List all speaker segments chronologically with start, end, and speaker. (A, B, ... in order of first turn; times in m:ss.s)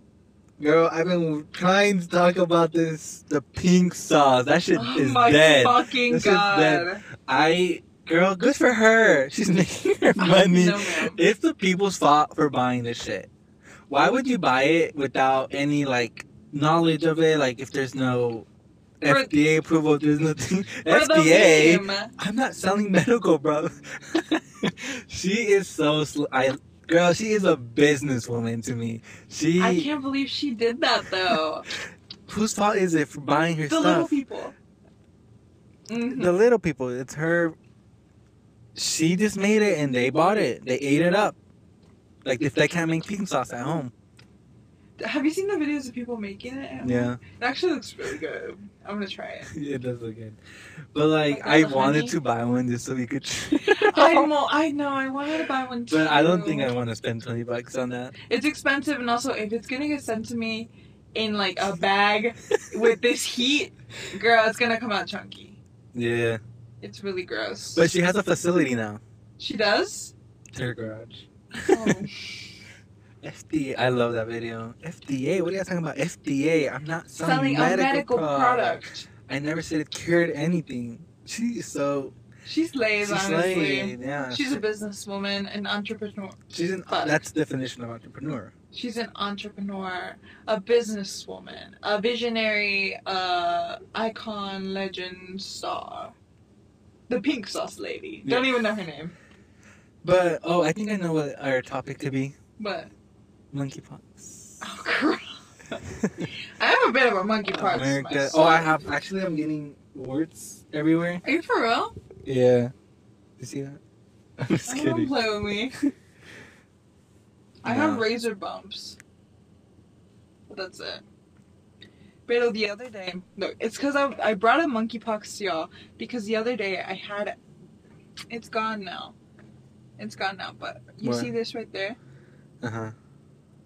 0:00.6-0:13.3 A
0:04.8-0:07.0 B
0:10.2-0:11.2 B
0:13.9-0:18.5 A
0:19.0-0:29.9 A
0:19.0-0:19.3 B
0:20.9-0:22.1 B
0:29.6-0:31.7 B
0:32.3-0:34.2 A
0:33.6-0:34.5 B
0:35.9-0:36.3 B
0:36.1-0:37.6 A
0:38.8-0:41.4 A
0:42.2-0:43.9 A
0:45.0-0:49.5 B
0:46.8-0:47.2 A
0:49.5-0:50.4 A
0:50.9-0:54.3 A
0:51.3-0:52.2 B
0:53.7-0:56.7 B
0:55.9-0:58.1 A
0:58.3-1:05.6 B
1:05.9-1:06.4 A
1:06.8-1:07.9 B
1:07.7-1:09.0 A
1:09.4-1:10.1 B
1:10.5-1:12.1 A
1:11.6-1:12.1 B
1:13.2-1:22.2 A
1:17.2-1:19.0 B
1:22.5-1:27.2 B
1:23.0-1:24.6 A
1:26.5-1:28.5 A
1:28.7-1:36.1 B
1:37.1-1:39.1 B
1:38.2-1:38.6 A
1:40.0-1:42.4 A
1:42.6-1:42.9 B
1:43.5-1:44.7 A
1:44.6-1:45.8 B
1:46.0-1:46.3 A
1:46.6-1:48.8 B
1:47.5-1:51.2 A
1:51.2-1:51.9 B
1:52.2-1:52.7 A
1:53.4-1:53.8 A
1:54.4-1:55.7 A
1:54.7-1:55.7 B
1:57.6-1:59.0 B
1:57.6-1:58.0 A
2:00.5-2:01.0 B
2:02.3-2:07.4 B
2:08.3-2:09.2 B
2:10.0-2:12.0 B
2:11.0-2:11.4 A
2:12.6-2:13.0 A